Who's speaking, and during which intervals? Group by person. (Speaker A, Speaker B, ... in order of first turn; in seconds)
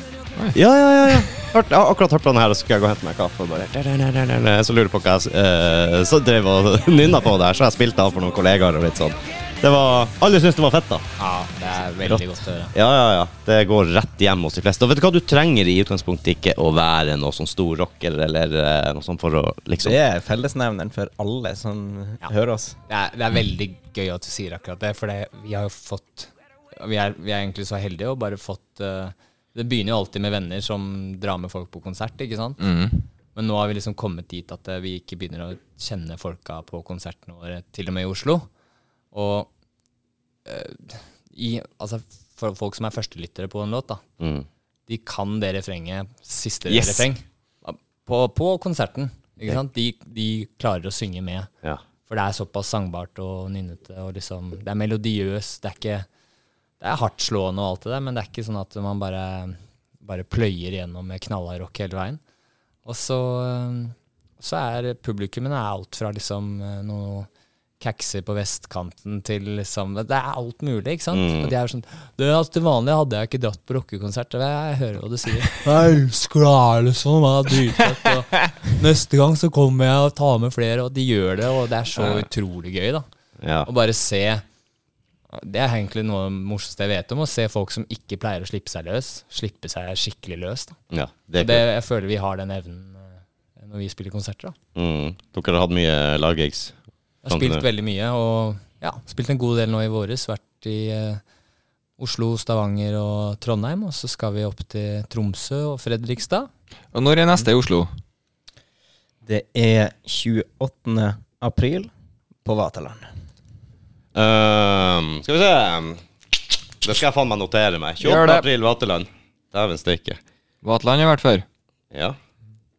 Speaker A: 0.5-11.0, 12.0-20.0, 44.2-44.5, 71.1-71.5, 82.0-82.3, 83.4-83.7, 90.9-91.7, 94.7-96.7, 97.3-97.6, 114.1-120.2, 121.9-122.2
Speaker B: 11.2-12.7, 22.9-32.7, 33.3-38.5, 39.1-39.5, 40.5-44.0, 44.9-51.5, 52.0-56.0, 56.8-62.2, 62.8-67.3, 67.8-83.0, 83.6-84.4, 85.3-90.8, 91.4-94.5, 97.2-101.2, 102.0-106.5
Speaker C: 19.8-22.8, 109.2-111.9, 112.4-113.1
Speaker D: 32.6-33.0, 46.7-47.0, 106.9-107.9, 118.0-118.5, 120.6-121.4